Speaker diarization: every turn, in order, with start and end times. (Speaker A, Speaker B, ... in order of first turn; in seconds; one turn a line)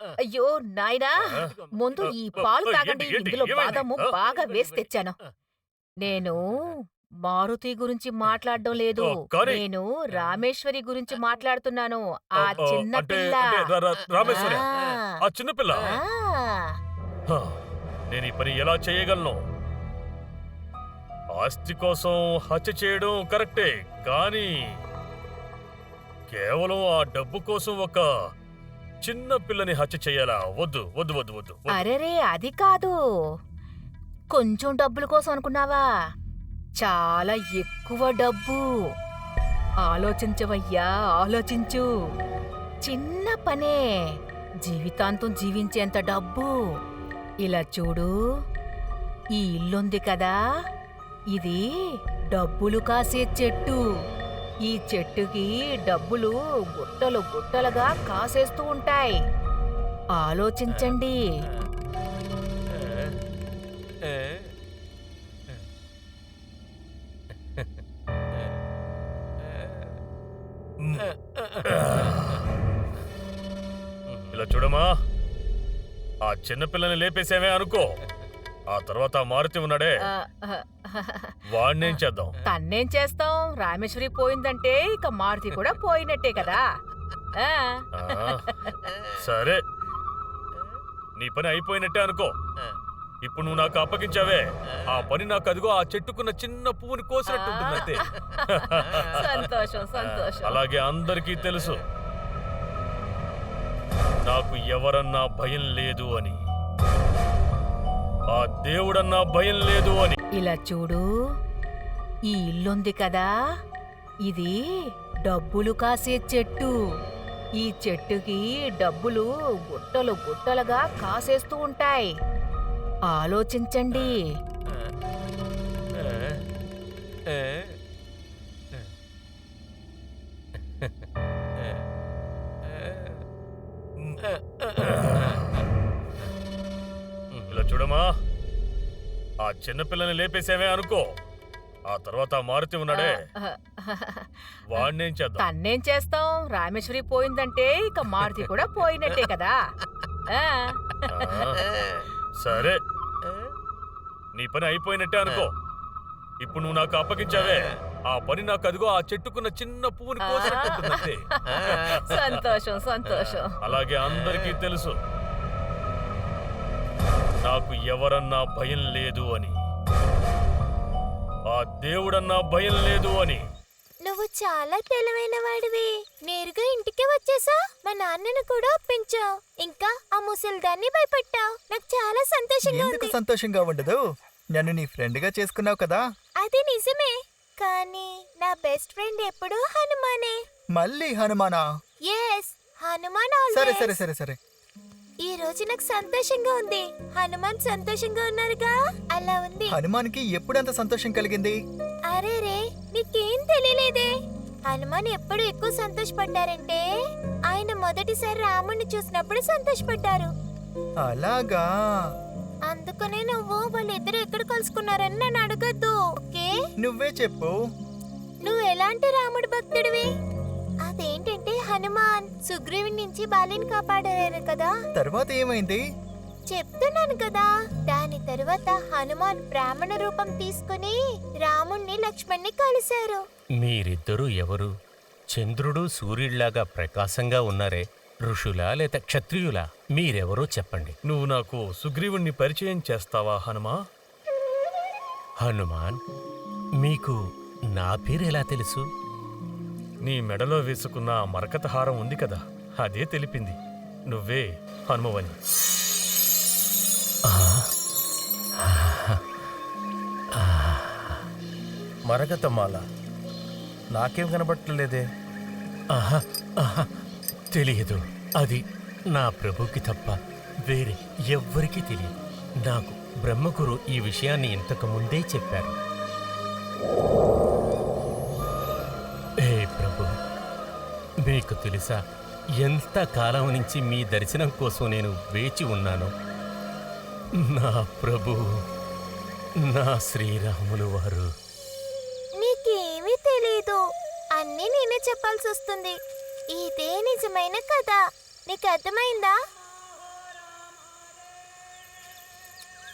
Speaker A: 0.2-5.2
Speaker B: 2.0-4.1
Speaker C: 4.4-4.8
Speaker A: 6.0-13.6
Speaker B: 9.0-9.6
Speaker B: 12.4-14.7
Speaker D: 14.2-15.2
Speaker A: 14.3-14.6
Speaker B: 15.2-15.8
Speaker D: 15.8-16.6
Speaker A: 15.8-16.4
Speaker B: 17.3-17.6
Speaker B: 18.1-19.4
Speaker B: 21.4-24.8
Speaker B: 26.3-28.1
Speaker B: 29.0-31.8
Speaker A: 31.7-32.9
Speaker A: 34.3-35.8
Speaker A: 36.8-38.6
Speaker A: 39.9-41.9
Speaker A: 42.9-46.6
Speaker A: 47.4-48.1
Speaker A: 49.3-50.4
Speaker A: 51.3-51.6
Speaker A: 52.3-53.8
Speaker A: 54.7-59.2
Speaker A: 60.2-61.2
Speaker B: 71.7-72.4
Speaker B: 74.3-75.0
Speaker B: 76.2-78.0
Speaker B: 78.7-79.9
Speaker A: 80.1-86.7
Speaker B: 81.5-82.3
Speaker A: 87.4-88.7
Speaker B: 88.0-88.6
Speaker B: 89.2-89.6
Speaker B: 91.2-92.3
Speaker B: 93.2-101.8
Speaker A: 97.3-100.6
Speaker B: 104.2-106.4
Speaker B: 108.3-110.2
Speaker A: 110.4-111.1
Speaker A: 112.3-113.3
Speaker A: 114.3-114.5
Speaker A: 115.3-116.7
Speaker A: 117.6-122.1
Speaker A: 123.1-124.3
Speaker B: 137.5-138.1
Speaker B: 139.4-141.1
Speaker B: 141.9-143.2
Speaker A: 142.9-144.9
Speaker B: 144.7-145.4
Speaker A: 145.4-149.6
Speaker A: 150.3-151.3
Speaker B: 151.1-151.7
Speaker B: 152.4-152.8
Speaker B: 154.3-155.5
Speaker B: 156.4-162.4
Speaker A: 160.2-163.6
Speaker C: 161.7-162.0
Speaker B: 163.6-165.0
Speaker B: 167.4-169.6
Speaker B: 171.5-173.4
Speaker D: 174.0-183.1
Speaker E: 182.7-184.0
Speaker E: 184.5-186.0
Speaker D: 186.4-190.4
Speaker E: 190.8-191.6
Speaker D: 192.1-193.9
Speaker E: 193.5-194.4
Speaker D: 195.2-199.7
Speaker E: 199.7-201.6
Speaker D: 202.1-204.1
Speaker D: 204.7-206.8
Speaker D: 207.5-210.3
Speaker E: 211.0-211.6
Speaker D: 212.7-216.5
Speaker E: 216.8-217.5
Speaker D: 218.4-220.1
Speaker D: 220.9-224.7
Speaker E: 225.0-225.8
Speaker D: 226.5-233.2
Speaker C: 233.7-234.7
Speaker C: 235.4-240.9
Speaker B: 241.1-243.8
Speaker C: 245.5-245.9
Speaker C: 246.8-247.1
Speaker C: 247.8-248.8
Speaker B: 250.1-255.4
Speaker C: 258.8-259.2
Speaker C: 260.7-261.1
Speaker F: 262.1-262.8
Speaker F: 263.9-265.1
Speaker C: 266.0-266.9
Speaker C: 267.6-268.6
Speaker C: 269.1-270.1
Speaker C: 270.7-272.1
Speaker C: 272.7-275.8
Speaker C: 279.4-280.1
Speaker C: 281.3-281.9
Speaker C: 282.6-286.1
Speaker C: 287.6-288.4
Speaker C: 289.7-291.3
Speaker D: 292.4-293.8
Speaker D: 294.4-295.9
Speaker D: 296.5-299.4